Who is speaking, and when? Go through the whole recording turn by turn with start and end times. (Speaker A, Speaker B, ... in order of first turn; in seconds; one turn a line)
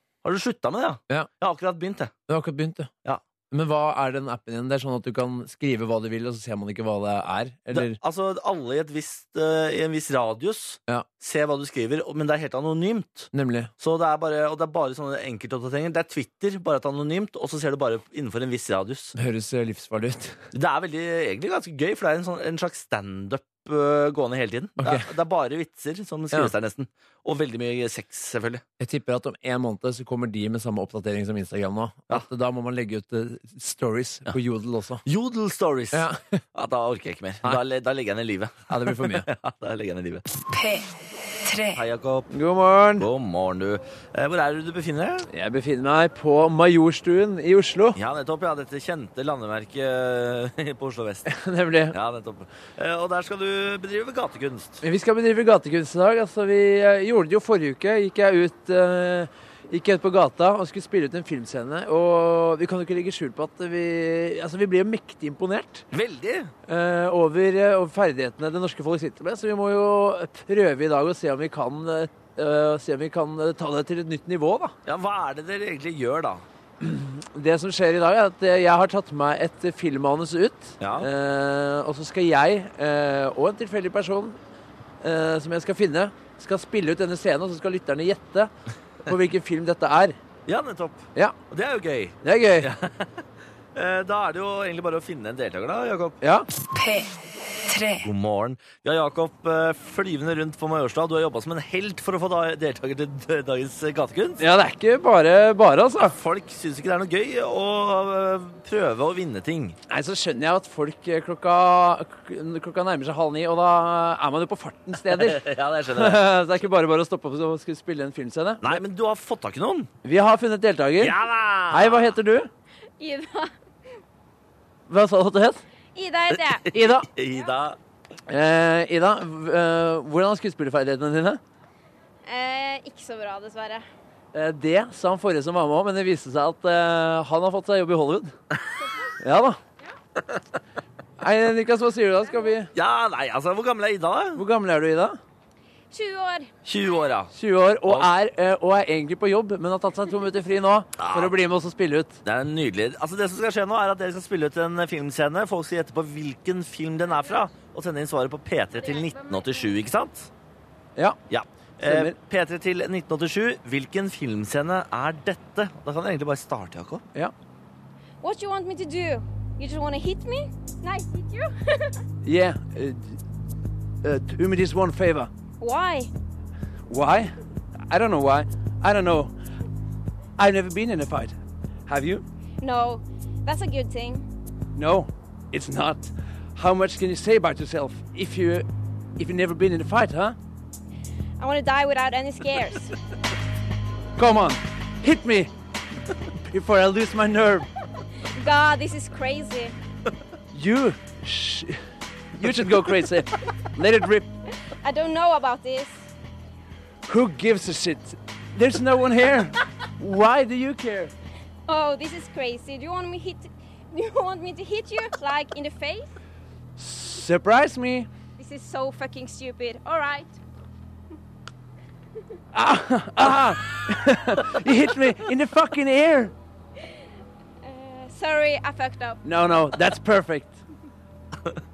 Speaker A: 0.2-2.1
Speaker B: 2.3-2.9
Speaker B: 3.5-8.0
Speaker A: 7.7-19.1
Speaker B: 13.3-13.7
Speaker B: 19.1-20.4
Speaker A: 20.5-28.6
Speaker B: 24.8-25.1
Speaker B: 28.8-35.0
Speaker A: 35.0-40.2
Speaker B: 35.9-36.4
Speaker B: 38.7-39.3
Speaker A: 41.7-42.3
Speaker B: 42.3-43.1
Speaker A: 43.0-45.3
Speaker B: 45.3-48.0
Speaker A: 47.9-51.3
Speaker B: 51.3-52.0
Speaker A: 51.9-54.8
Speaker B: 54.8-65.8
Speaker A: 65.9-66.5
Speaker B: 66.7-74.7
Speaker A: 74.8-76.4
Speaker B: 76.8-84.4
Speaker A: 80.8-81.1
Speaker B: 85.0-88.5
Speaker B: 89.0-90.2
Speaker A: 90.5-93.2
Speaker B: 92.2-92.7
Speaker A: 93.7-96.2
Speaker B: 96.2-96.5
Speaker A: 97.9-104.4
Speaker B: 104.4-106.1
Speaker A: 106.0-109.8
Speaker B: 109.9-118.8
Speaker A: 115.0-116.2
Speaker A: 118.6-119.9
Speaker B: 120.0-121.2
Speaker A: 121.0-122.1
Speaker B: 121.7-122.5
Speaker C: 123.0-123.5
Speaker B: 124.9-125.6
Speaker C: 125.9-126.7
Speaker A: 126.3-127.8
Speaker B: 126.7-127.1
Speaker B: 128.3-131.4
Speaker C: 132.2-133.8
Speaker B: 134.3-138.3
Speaker B: 139.2-139.6
Speaker B: 141.2-142.7
Speaker A: 142.7-144.4
Speaker B: 144.3-145.2
Speaker C: 145.9-146.5
Speaker A: 146.6-147.3
Speaker B: 147.3-152.2
Speaker A: 151.0-151.4
Speaker A: 152.2-160.3
Speaker A: 161.3-167.0
Speaker B: 161.8-162.2
Speaker C: 168.2-172.0
Speaker B: 172.2-173.3
Speaker B: 174.0-175.3
Speaker C: 175.6-176.1
Speaker B: 176.9-177.3
Speaker B: 177.9-179.3
Speaker B: 180.4-182.2
Speaker C: 182.6-184.2
Speaker B: 184.8-188.7
Speaker B: 189.2-190.3
Speaker C: 191.4-192.9
Speaker B: 194.2-195.5
Speaker B: 196.4-197.7
Speaker C: 198.3-199.7
Speaker B: 200.5-201.8
Speaker B: 202.3-204.3
Speaker C: 204.7-206.1
Speaker B: 207.1-211.1
Speaker C: 211.7-216.1
Speaker B: 216.8-218.1
Speaker C: 218.4-220.4
Speaker B: 222.5-226.3
Speaker C: 227.6-229.2
Speaker B: 229.2-230.6